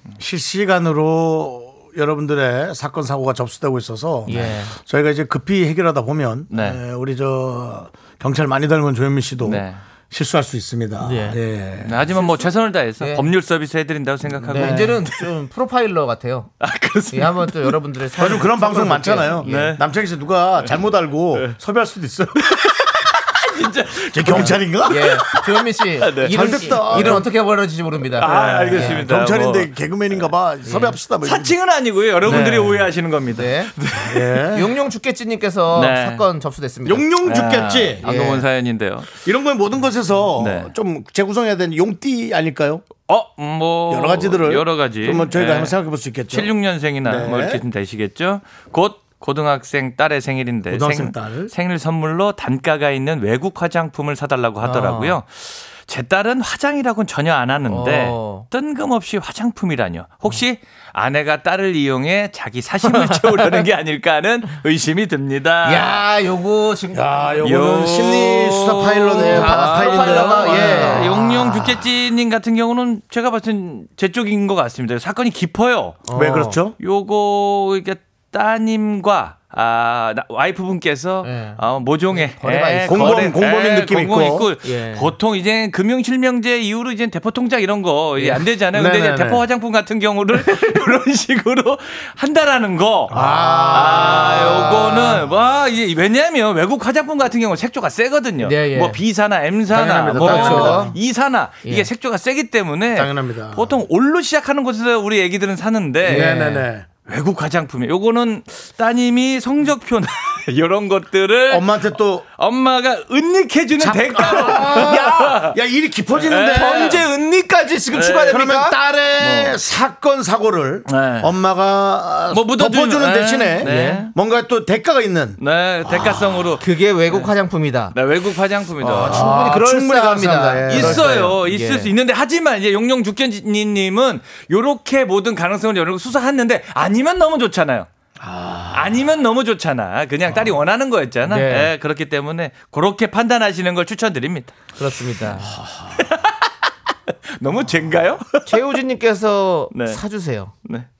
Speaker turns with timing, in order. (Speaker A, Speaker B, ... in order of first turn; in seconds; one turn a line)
Speaker A: 0.2-12.4
Speaker B: 4.3-4.7
Speaker C: 4.3-4.6
Speaker C: 6.5-6.8
Speaker C: 9.4-9.8
Speaker B: 11.0-11.4
Speaker C: 11.8-15.2
Speaker B: 13.0-13.3
Speaker A: 14.3-15.0
Speaker B: 14.5-16.5
Speaker C: 16.6-17.8
Speaker B: 17.1-19.8
Speaker A: 18.2-22.6
Speaker C: 19.5-19.8
Speaker C: 22.5-25.4
Speaker A: 24.0-25.2
Speaker B: 24.3-29.1
Speaker C: 26.0-27.3
Speaker A: 26.2-27.3
Speaker C: 28.2-30.2
Speaker A: 28.2-31.5
Speaker B: 30.6-31.0
Speaker C: 31.2-34.3
Speaker A: 32.2-32.9
Speaker B: 32.3-32.7
Speaker B: 33.4-33.7
Speaker A: 34.0-34.7
Speaker B: 34.5-37.1
Speaker C: 35.7-36.2
Speaker A: 36.9-38.1
Speaker C: 37.2-39.1
Speaker B: 38.0-38.4
Speaker A: 39.2-42.9
Speaker C: 40.4-40.7
Speaker C: 43.0-45.7
Speaker A: 43.9-46.5
Speaker C: 46.3-66.0
Speaker A: 47.0-47.6
Speaker A: 50.7-51.5
Speaker B: 54.6-55.2
Speaker B: 57.7-58.5
Speaker B: 65.6-67.6
Speaker A: 66.9-71.3
Speaker C: 67.4-76.1
Speaker B: 69.2-71.8
Speaker B: 76.1-76.6
Speaker A: 76.1-76.8
Speaker C: 76.8-93.2
Speaker B: 81.2-83.4
Speaker A: 82.9-84.5
Speaker B: 84.6-85.1
Speaker B: 88.2-88.4
Speaker A: 88.7-89.4
Speaker A: 93.1-95.0
Speaker B: 93.1-95.2
Speaker C: 93.7-106.4
Speaker B: 98.4-99.0
Speaker A: 99.7-101.0
Speaker B: 100.1-101.0
Speaker A: 102.9-103.8
Speaker B: 106.0-106.7
Speaker A: 106.0-106.9
Speaker C: 107.0-115.5
Speaker A: 111.5-112.3
Speaker A: 113.8-117.0
Speaker B: 114.4-115.3
Speaker C: 116.2-117.0
Speaker B: 116.5-118.8
Speaker C: 117.9-118.4
Speaker A: 118.3-126.5
Speaker C: 119.2-119.5
Speaker C: 120.9-121.3
Speaker C: 122.3-124.1
Speaker B: 123.6-124.1
Speaker C: 125.4-127.3
Speaker B: 126.6-128.0
Speaker C: 127.9-129.4
Speaker B: 128.8-131.9
Speaker A: 128.8-131.3
Speaker C: 130.7-137.9
Speaker A: 138.2-139.1
Speaker C: 138.7-144.6
Speaker B: 141.3-141.7
Speaker B: 144.8-145.5
Speaker A: 145.5-146.1
Speaker C: 145.9-146.5
Speaker C: 147.4-148.4
Speaker B: 148.4-150.5
Speaker C: 149.7-150.0